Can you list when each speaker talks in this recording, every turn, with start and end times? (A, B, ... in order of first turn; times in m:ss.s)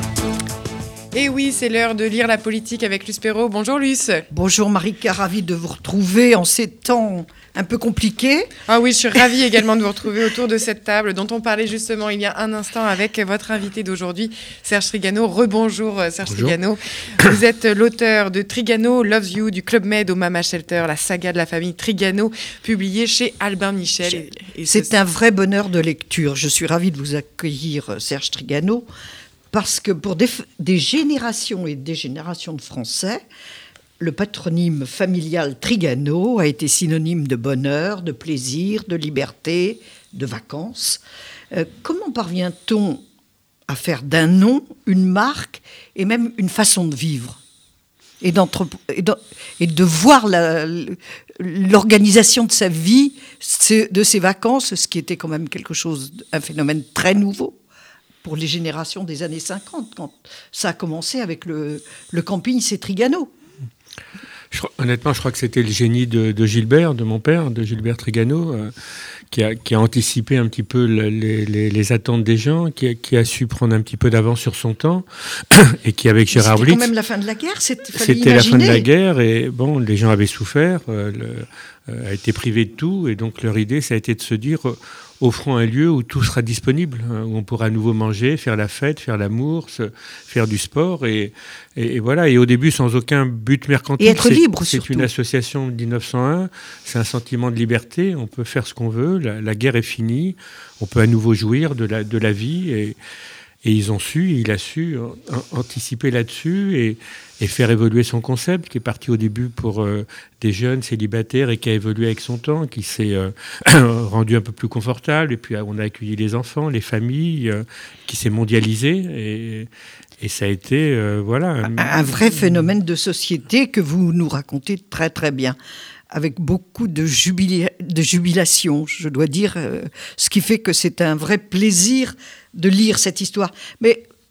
0:01.1-0:04.2 A
0:04.3-0:08.5 B
0:08.7-0:24.9 A
0:16.3-0:16.6 C
0:24.7-0:28.9 B
0:29.5-0:33.2 B
0:34.0-0:43.0 B
0:43.7-0:47.4 B
0:48.2-0:57.6 B
0:58.2-1:03.3 B
1:04.5-1:08.7 C
1:09.3-1:16.9 C
1:16.3-1:18.9 B
1:17.9-1:43.0 C
1:34.0-1:35.1 B
1:43.6-1:59.7 C
2:00.2-2:02.5 C
2:01.7-2:05.6 B
2:06.1-2:14.0 B